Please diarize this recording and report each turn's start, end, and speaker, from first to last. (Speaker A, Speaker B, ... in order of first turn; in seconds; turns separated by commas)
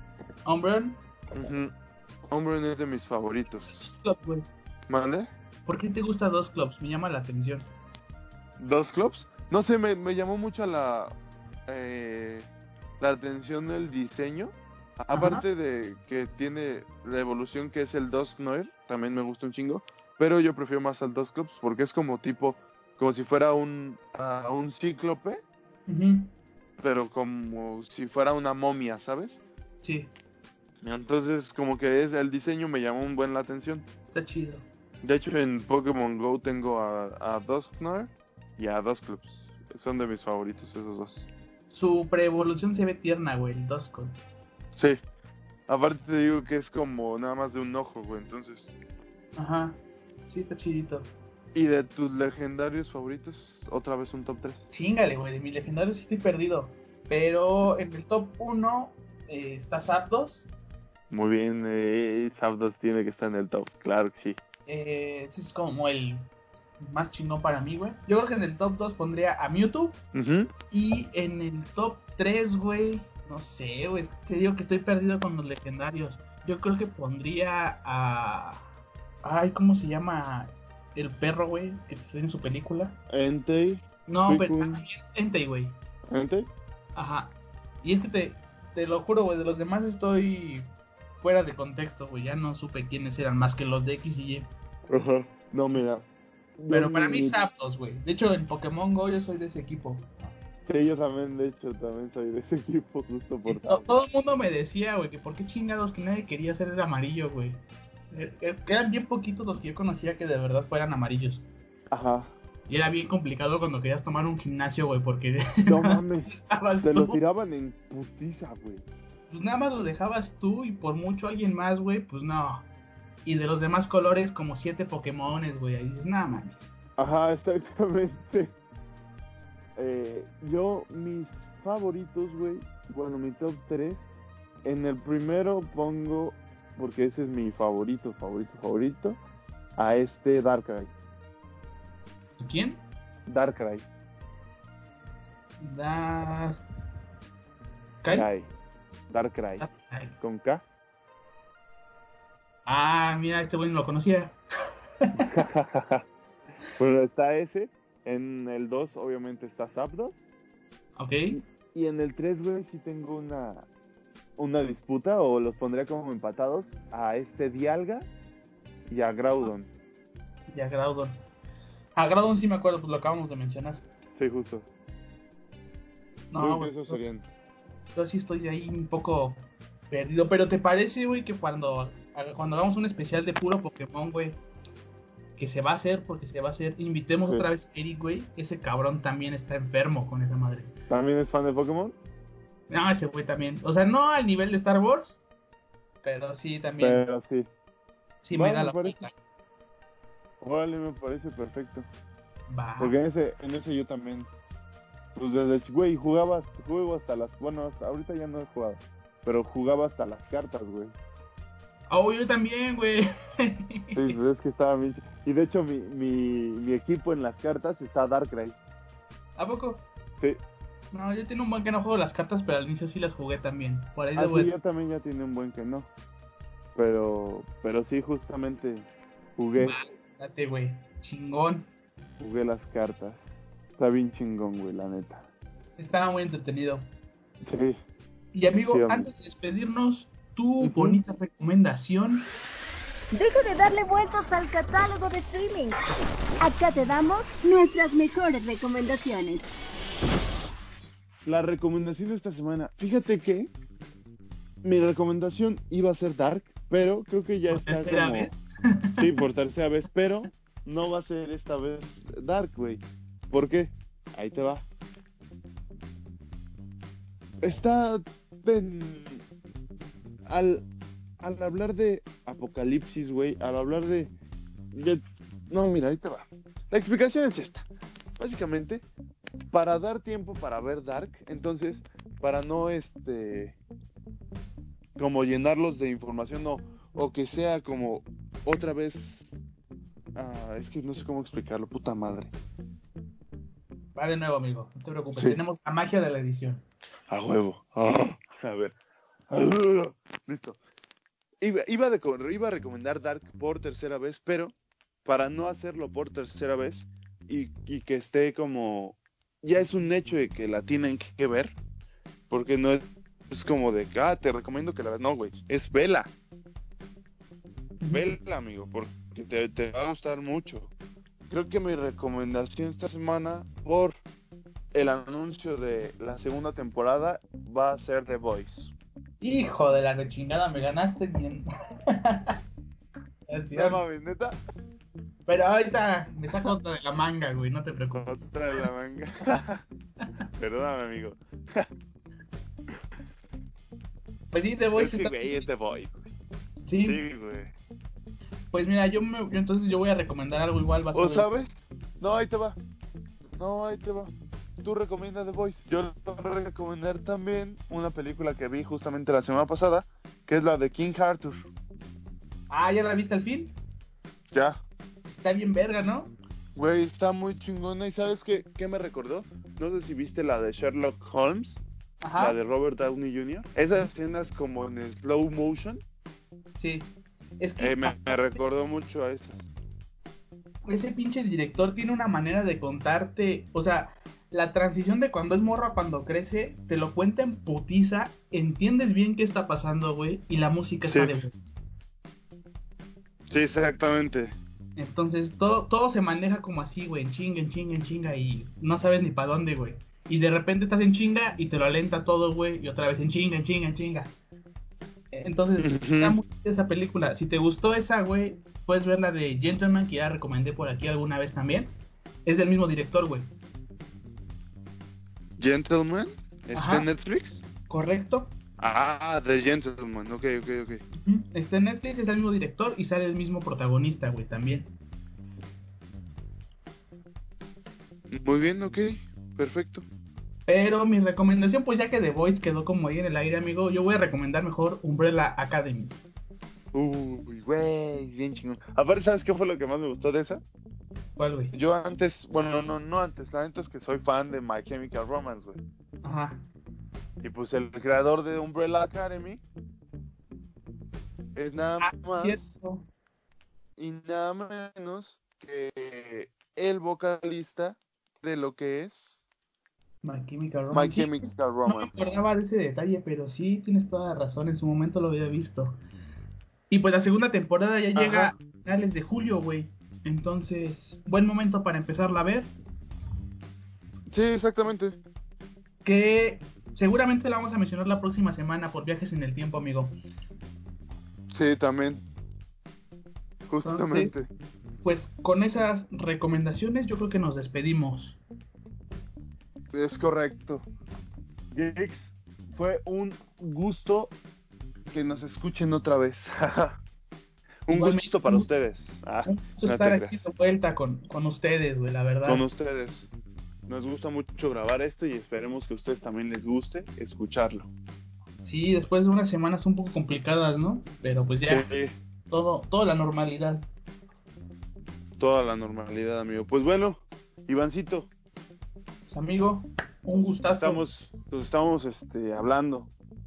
Speaker A: 0.5-1.0, Speaker B: 1.3-1.7, Speaker B: 2.3-3.8, Speaker A: 3.7-4.5, Speaker B: 4.9-5.3, Speaker A: 5.7-7.7, Speaker B: 8.6-11.1, Speaker B: 11.7-12.5, Speaker B: 13.0-25.4, Speaker A: 15.1-15.4, Speaker A: 25.9-26.3, Speaker B: 26.8-29.4, Speaker A: 29.8-30.1, Speaker B: 30.8-33.8, Speaker A: 34.1-34.6, Speaker B: 35.0-41.3, Speaker A: 41.7-44.2, Speaker B: 45.7-48.8, Speaker A: 49.4-51.1, Speaker B: 51.5-54.6, Speaker A: 54.7-60.5, Speaker B: 61.1-64.4, Speaker A: 64.7-70.0, Speaker B: 70.1-70.5, Speaker A: 70.7-78.7, Speaker A: 79.2-83.0, Speaker B: 83.1-84.8, Speaker A: 84.1-85.7, Speaker B: 86.1-86.5, Speaker A: 87.0-90.7, Speaker A: 91.2-94.5, Speaker B: 94.9-96.1, Speaker B: 96.6-97.4, Speaker A: 96.7-100.1, Speaker B: 100.7-103.9, Speaker A: 103.5-107.6, Speaker A: 108.1-111.5, Speaker B: 111.9-112.3, Speaker A: 112.7-117.2, Speaker B: 115.7-118.8, Speaker A: 119.3-122.7, Speaker A: 123.2-126.8, Speaker B: 127.0-128.6, Speaker B: 129.8-134.1, Speaker B: 134.6-139.2, Speaker B: 139.8-140.9, Speaker A: 142.4-142.8, Speaker B: 143.3-143.9, Speaker A: 145.6-146.6, Speaker A: 148.0-148.3, Speaker B: 148.1-148.5, Speaker B: 149.1-149.7, Speaker A: 149.6-150.1, Speaker B: 150.2-150.6, Speaker A: 152.7-154.4, Speaker B: 155.2-156.0, Speaker B: 156.8-160.2, Speaker A: 161.0-161.4, Speaker B: 161.3-163.7, Speaker B: 164.4-168.1, Speaker B: 168.9-169.7, Speaker A: 170.5-171.2, Speaker A: 171.9-173.8, Speaker B: 174.2-174.7, Speaker A: 176.3-177.1, Speaker B: 176.4-177.2, Speaker A: 177.9-184.4, Speaker A: 185.4-190.7, Speaker B: 190.9-192.0, Speaker A: 192.7-195.2, Speaker A: 196.0-197.0, Speaker B: 196.8-197.5, Speaker A: 198.2-199.1, Speaker B: 198.3-199.0, Speaker B: 200.4-201.9, Speaker A: 202.5-203.0, Speaker B: 202.8-204.3, Speaker B: 205.2-210.9, Speaker A: 211.9-214.2, Speaker B: 213.9-218.6, Speaker A: 219.4-219.8, Speaker A: 220.9-224.5, Speaker B: 224.2-225.9, Speaker B: 226.8-229.8, Speaker A: 229.6-231.7, Speaker B: 232.2-233.2, Speaker B: 233.8-235.2, Speaker A: 235.8-236.8, Speaker B: 237.4-237.8, Speaker A: 238.3-242.3, Speaker B: 238.7-239.1, Speaker B: 240.6-241.0, Speaker C: 243.1-245.8, Speaker C: 246.4-249.5, Speaker B: 251.2-253.5, Speaker B: 254.6-258.3, Speaker A: 257.5-259.1, Speaker B: 259.0-264.6, Speaker B: 267.4-269.2, Speaker B: 270.3-270.6, Speaker B: 271.2-274.1, Speaker B: 274.7-277.7, Speaker B: 278.2-278.8, Speaker B: 279.5-283.6, Speaker B: 285.0-289.2, Speaker B: 290.2-292.3, Speaker A: 293.9-296.6, Speaker B: 297.1-298.8, Speaker B: 299.3-300.6, Speaker B: 301.4-304.5, Speaker B: 305.1-311.6, Speaker B: 312.3-316.1, Speaker A: 317.8-318.1, Speaker B: 317.9-320.7, Speaker B: 321.3-323.9, Speaker B: 324.7-328.7, Speaker A: 329.2-332.4, Speaker A: 333.3-333.8, Speaker B: 333.5-334.4, Speaker A: 335.3-338.7, Speaker B: 338.0-339.6, Speaker B: 340.4-341.7, Speaker A: 344.3-345.5, Speaker B: 344.8-346.1, Speaker A: 346.6-347.0, Speaker B: 346.8-347.5, Speaker A: 348.5-351.3, Speaker B: 350.9-352.6, Speaker B: 353.4-361.5, Speaker A: 362.5-363.5, Speaker B: 364.3-364.6, Speaker A: 365.1-366.1, Speaker B: 366.6-371.6, Speaker A: 372.0-372.4, Speaker B: 372.2-375.8, Speaker A: 376.6-376.9, Speaker A: 377.4-378.0, Speaker B: 377.6-379.5, Speaker A: 380.7-391.4, Speaker B: 390.9-391.2, Speaker B: 393.3-394.4, Speaker A: 394.8-404.1, Speaker A: 405.1-411.7, Speaker B: 405.6-406.2, Speaker A: 412.3-413.3, Speaker B: 415.4-417.4, Speaker A: 416.5-416.9, Speaker A: 417.7-418.3, Speaker B: 418.6-420.8, Speaker A: 421.0-424.7, Speaker B: 428.1-429.9, Speaker A: 430.5-436.0, Speaker B: 436.7-440.4, Speaker A: 441.2-441.6, Speaker B: 441.5-445.6, Speaker A: 446.0-446.4, Speaker B: 447.2-449.4, Speaker B: 451.4-452.4, Speaker A: 451.8-452.9, Speaker B: 453.8-459.2, Speaker A: 460.0-465.8, Speaker B: 460.7-462.2, Speaker A: 466.7-472.5, Speaker B: 468.0-468.3, Speaker B: 474.1-475.0, Speaker A: 475.8-479.9, Speaker B: 481.3-482.0, Speaker B: 483.5-484.3, Speaker A: 483.6-484.1, Speaker A: 484.8-488.2, Speaker B: 489.7-490.6, Speaker B: 491.5-494.1, Speaker B: 494.9-496.8, Speaker B: 497.7-500.3, Speaker A: 497.7-498.5, Speaker A: 499.2-502.4, Speaker B: 502.2-503.1, Speaker B: 503.7-507.7, Speaker A: 508.4-511.7, Speaker B: 511.4-511.9, Speaker A: 512.3-513.6, Speaker B: 515.2-518.1, Speaker A: 519.1-520.8, Speaker B: 520.1-522.9